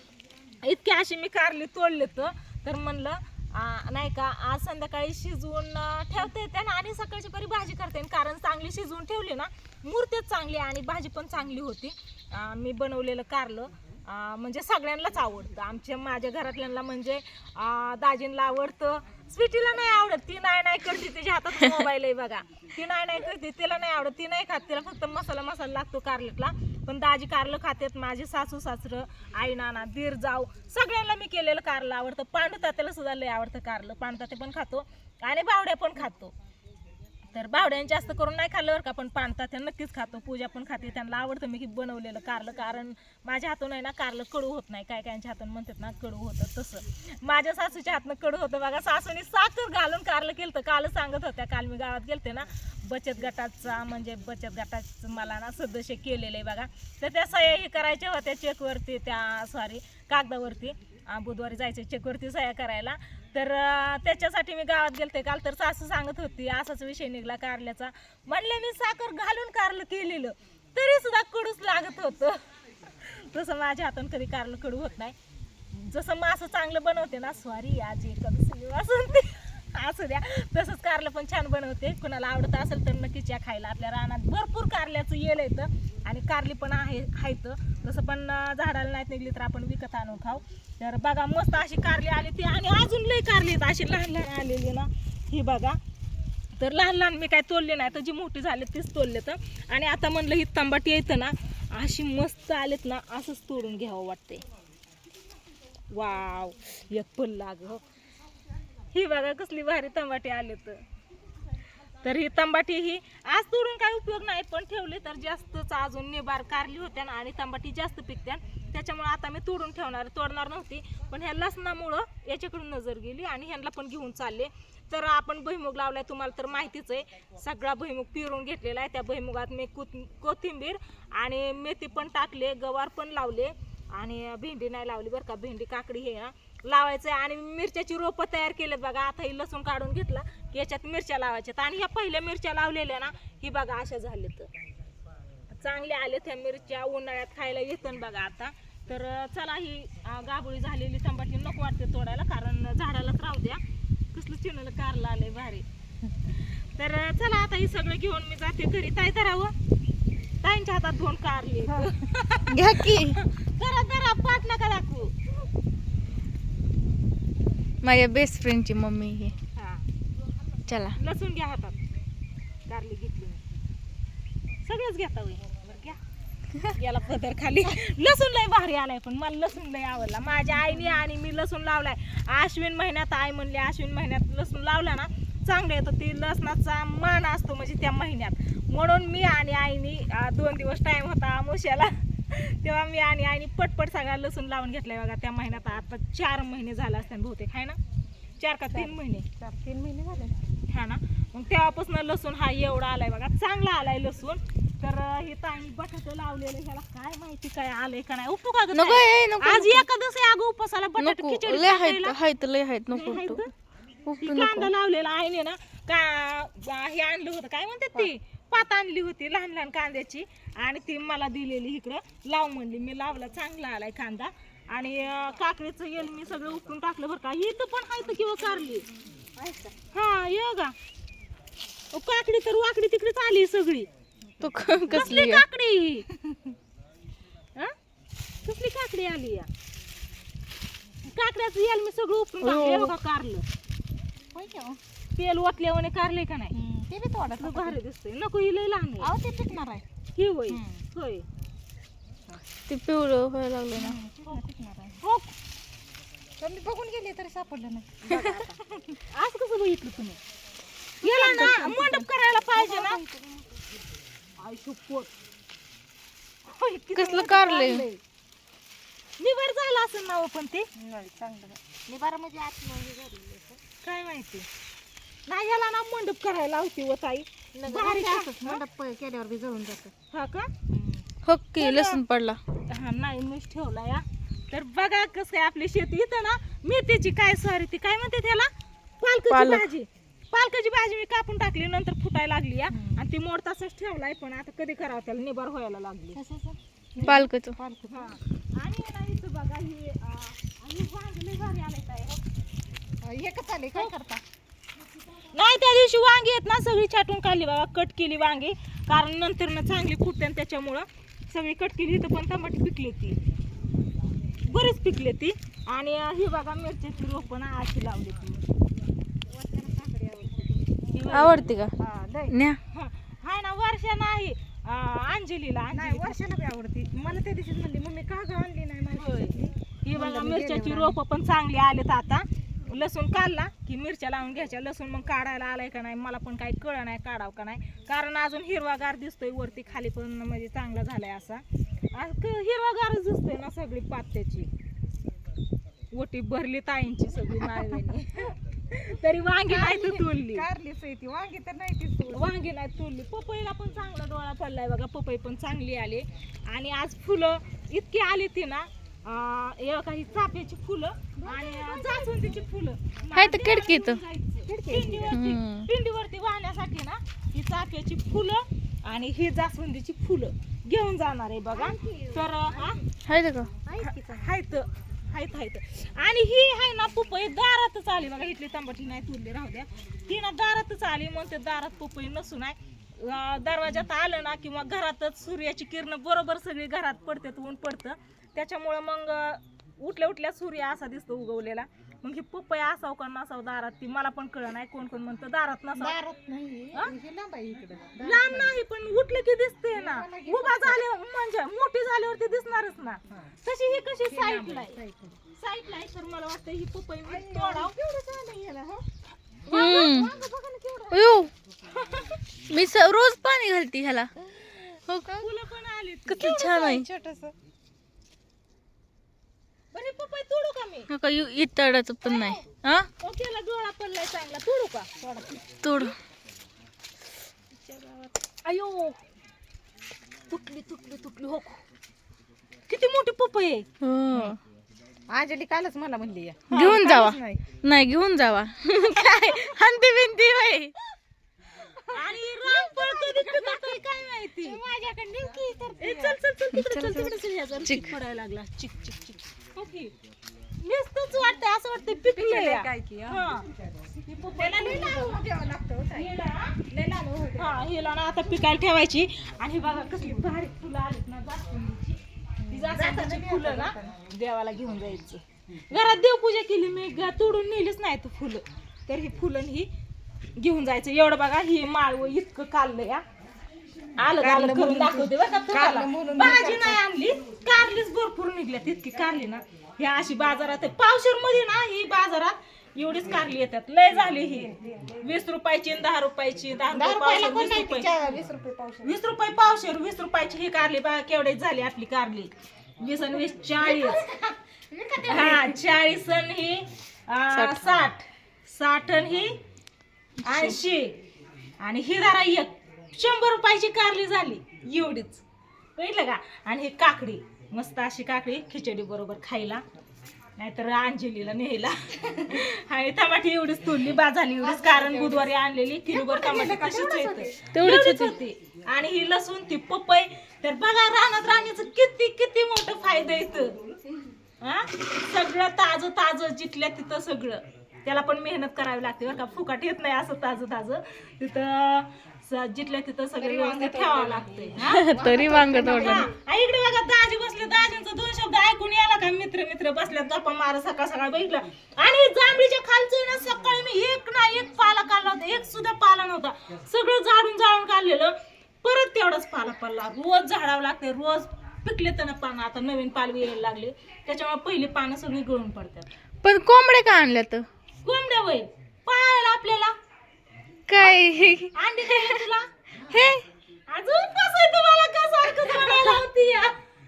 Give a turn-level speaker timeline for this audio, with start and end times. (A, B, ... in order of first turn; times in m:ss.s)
0:00.6-0:36.3 A
0:37.3-1:12.4 A
1:13.0-1:15.2 A
1:15.7-1:35.8 A
1:36.6-1:44.4 A
1:45.9-1:47.8 A
1:48.9-1:50.8 A
1:52.0-2:24.5 A
2:25.5-2:33.6 A
2:34.1-2:35.6 A
2:36.3-2:39.5 A
2:40.4-2:45.2 A
2:42.5-2:43.2 B
2:47.8-2:49.3 B
2:49.6-2:49.8 A
2:50.7-2:51.0 B
2:51.0-2:51.8 A
2:52.7-2:53.4 A
2:54.6-2:56.0 A
2:56.6-3:17.8 A
3:18.4-3:19.3 A
3:18.7-3:20.4 C
3:20.7-3:32.2 A
3:28.7-3:29.9 B
3:31.0-3:33.4 B
3:32.9-3:33.5 A
3:34.1-3:34.7 B
3:34.2-3:48.9 A
3:49.4-3:49.7 C
3:49.9-3:50.7 A
3:51.9-3:53.9 A
3:54.4-3:55.4 B
3:54.8-3:55.1 C
3:54.9-3:56.1 A
3:58.4-3:59.5 A
4:01.1-4:03.4 A
4:02.4-4:02.9 B
4:04.4-4:04.8 C
4:05.2-4:06.6 A
4:06.5-4:07.8 C
4:07.3-4:09.1 A
4:09.0-4:09.8 C
4:10.2-4:11.3 A
4:10.5-4:10.8 C
4:12.7-4:14.0 B
4:13.7-4:15.0 C
4:15.0-4:15.4 A
4:16.4-4:18.6 C
4:18.9-4:20.2 A
4:21.0-4:23.0 A
4:21.0-4:23.7 C
4:21.1-4:21.6 B
4:24.4-4:25.1 A
4:26.5-4:27.8 A
4:27.0-4:27.9 B
4:27.6-4:27.9 C
4:29.2-4:30.7 A
4:30.8-4:33.6 C
4:33.8-4:34.5 A
4:35.3-4:38.6 A
4:37.6-4:39.9 C
4:40.1-4:40.7 A
4:41.2-4:42.4 B
4:41.6-4:42.0 A
4:42.7-4:48.5 A
4:49.0-4:56.2 A
4:49.3-4:49.7 B
4:52.7-4:53.0 C
4:56.2-4:58.1 C
4:57.0-4:57.6 B
4:57.9-5:02.2 A
5:03.0-5:04.2 C
5:05.2-5:13.2 A
5:14.5-5:18.4 A
5:19.3-5:21.3 C
5:20.9-5:21.5 A
5:21.1-5:21.7 B
5:21.8-5:22.4 C
5:22.3-5:22.6 B
5:22.7-5:26.2 A
5:25.7-5:31.0 C
5:29.0-5:41.4 A
5:41.9-5:44.5 A
5:46.0-5:50.5 A
5:47.4-5:47.8 C
5:49.5-5:52.3 C
5:52.1-6:12.8 A
6:01.2-6:02.1 C
6:03.1-6:04.0 B
6:04.5-6:05.2 C
6:05.1-6:05.7 B
6:11.5-6:12.8 C
6:13.1-6:13.5 B
6:13.6-6:14.4 C
6:13.8-6:36.0 A
6:35.8-6:38.6 C
6:38.0-6:44.8 A
6:39.7-6:40.8 C
6:44.1-6:45.2 C
6:45.3-6:47.8 A
6:47.1-6:48.9 C
6:49.5-6:50.1 B
6:49.5-6:50.3 A
6:49.8-6:51.0 C
6:50.9-6:51.3 B
6:51.7-6:52.2 A
6:52.5-6:54.1 B
6:54.9-6:55.2 B
6:55.1-6:56.8 A
6:56.1-6:56.9 B
6:56.6-6:57.4 C
6:59.7-7:00.9 A
7:00.9-7:02.9 B
7:02.0-7:02.5 A
7:03.0-7:06.0 A
7:05.6-7:06.0 B
7:07.6-7:09.0 A
7:10.3-7:11.6 A
7:12.7-7:14.3 A
7:13.8-7:14.4 B
7:15.1-7:17.4 C
7:16.5-7:16.9 A
7:16.5-7:20.7 B
7:18.9-7:19.4 A
7:21.6-7:23.8 C
7:21.9-7:24.6 A
7:24.4-7:26.2 C
7:25.8-7:29.9 A
7:26.5-7:27.8 B
7:30.6-7:33.5 A
7:32.1-7:36.1 C
7:34.3-7:35.2 A
7:35.9-7:36.7 A
7:36.7-7:37.6 C
7:37.4-7:49.7 A
7:42.4-7:44.0 C
7:50.4-7:53.0 A
7:54.0-8:07.9 A
7:54.2-7:56.8 C
8:04.2-8:05.0 C
8:06.7-8:08.9 C
8:08.8-8:14.0 A
8:13.6-8:15.6 C
8:15.1-8:19.4 A
8:17.3-8:17.7 B
8:20.2-8:21.0 A
8:21.6-8:25.2 A
8:25.8-8:29.6 A
8:30.4-8:43.6 A
8:34.4-8:35.3 C
8:35.9-8:37.4 C
8:37.5-8:38.1 B
8:44.4-9:15.9 A
8:53.2-8:56.1 C
8:54.6-8:56.1 B
9:16.2-9:17.5 B
9:17.8-9:19.7 A
9:20.7-9:22.2 B
9:20.8-9:22.5 A
9:22.9-9:23.2 B
9:23.7-9:26.6 A
9:25.7-9:26.0 B